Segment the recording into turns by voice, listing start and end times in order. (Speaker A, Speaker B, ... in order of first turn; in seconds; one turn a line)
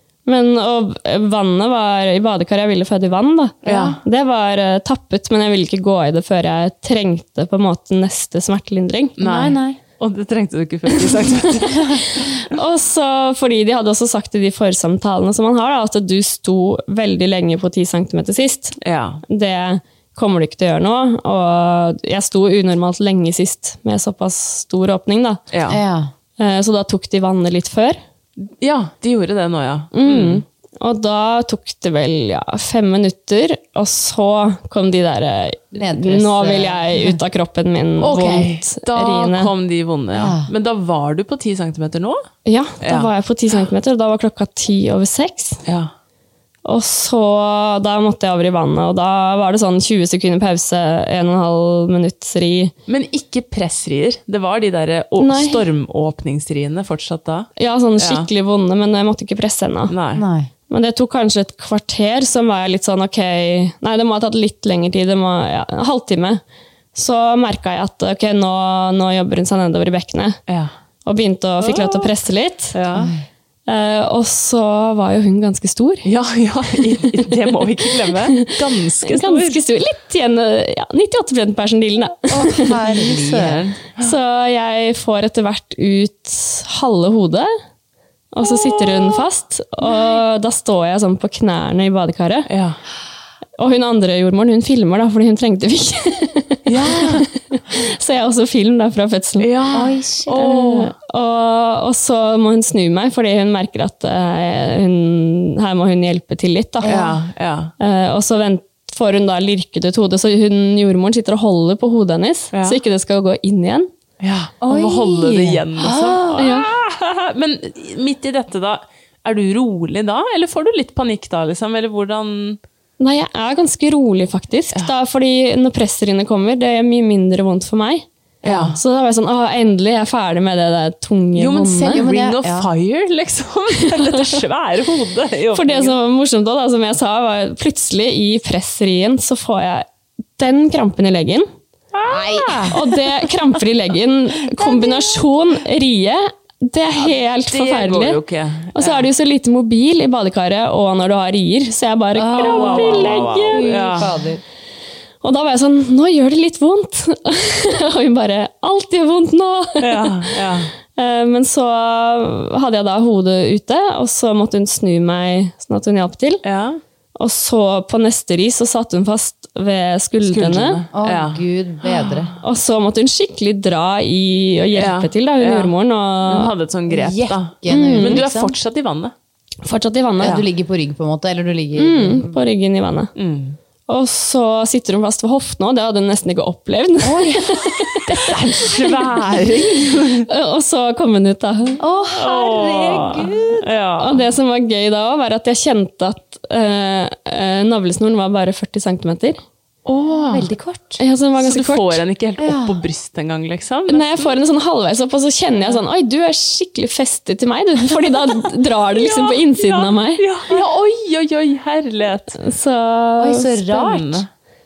Speaker A: 0.3-9.2
Speaker B: 3.6-4.0
Speaker C: 3.7-4.0
Speaker B: 9.2-12.5
Speaker C: 9.2-9.8
Speaker A: 11.7-25.4
Speaker B: 18.8-19.2
Speaker B: 25.5-25.8
Speaker C: 25.7-26.1
Speaker A: 26.4-28.0
Speaker B: 28.4-30.4
Speaker A: 29.9-39.5
Speaker C: 35.7-37.2
Speaker C: 38.0-38.5
Speaker B: 38.0-42.2
Speaker C: 40.1-40.5
Speaker A: 42.5-45.6
Speaker B: 42.8-43.1
Speaker B: 45.7-45.9
Speaker A: 46.6-52.7
Speaker B: 52.9-58.3
Speaker A: 55.2-55.6
Speaker A: 57.6-59.9
Speaker B: 59.9-60.3
Speaker C: 60.1-60.5
Speaker A: 60.7-66.4
Speaker A: 66.9-70.4
Speaker B: 70.5-70.7
Speaker A: 71.0-72.8
Speaker B: 71.6-72.1
Speaker B: 72.7-73.1
Speaker C: 73.0-73.2
Speaker A: 73.7-76.1
Speaker B: 76.0-79.6
Speaker A: 78.1-82.6
Speaker C: 82.3-83.6
Speaker B: 82.7-84.1
Speaker A: 84.0-87.5
Speaker A: 88.3-92.5
Speaker B: 88.5-89.2
Speaker B: 92.5-92.8
Speaker A: 93.6-99.5
Speaker B: 96.7-97.2
Speaker B: 99.4-100.9
Speaker C: 99.7-100.4
Speaker A: 100.3-107.0
Speaker C: 106.8-107.2
Speaker B: 106.9-107.7
Speaker A: 107.8-113.9
Speaker B: 112.5-112.8
Speaker B: 114.2-122.6
Speaker C: 114.6-116.5
Speaker A: 116.4-116.7
Speaker A: 123.0-128.1
Speaker B: 128.4-128.8
Speaker C: 128.4-128.8
Speaker A: 128.8-132.0
Speaker B: 131.3-136.0
Speaker C: 131.9-132.7
Speaker A: 135.5-139.9
Speaker A: 140.4-141.5
Speaker B: 141.9-142.8
Speaker C: 142.1-142.8
Speaker A: 142.7-148.2
Speaker C: 144.5-145.2
Speaker B: 147.5-149.1
Speaker A: 148.8-154.1
Speaker C: 152.2-154.4
Speaker B: 152.3-154.1
Speaker A: 155.2-166.4
Speaker B: 159.8-160.7
Speaker B: 166.4-166.8
Speaker A: 167.2-170.8
Speaker B: 170.2-172.2
Speaker C: 170.9-172.3
Speaker A: 172.4-176.5
Speaker B: 174.8-179.1
Speaker C: 176.9-178.6
Speaker A: 177.7-178.2
Speaker A: 179.7-180.4
Speaker C: 180.2-182.4
Speaker A: 181.8-183.1
Speaker B: 183.2-183.6
Speaker A: 183.9-188.1
Speaker C: 187.0-188.8
Speaker B: 188.1-190.3
Speaker A: 190.3-191.8
Speaker C: 191.8-193.7
Speaker B: 192.1-194.2
Speaker A: 194.0-199.4
Speaker B: 199.8-200.5
Speaker C: 200.3-201.0
Speaker A: 201.0-202.0
Speaker B: 201.4-204.4
Speaker C: 202.4-202.8
Speaker A: 203.9-210.3
Speaker B: 208.5-212.4
Speaker A: 212.4-213.5
Speaker C: 213.2-214.2
Speaker B: 213.7-214.3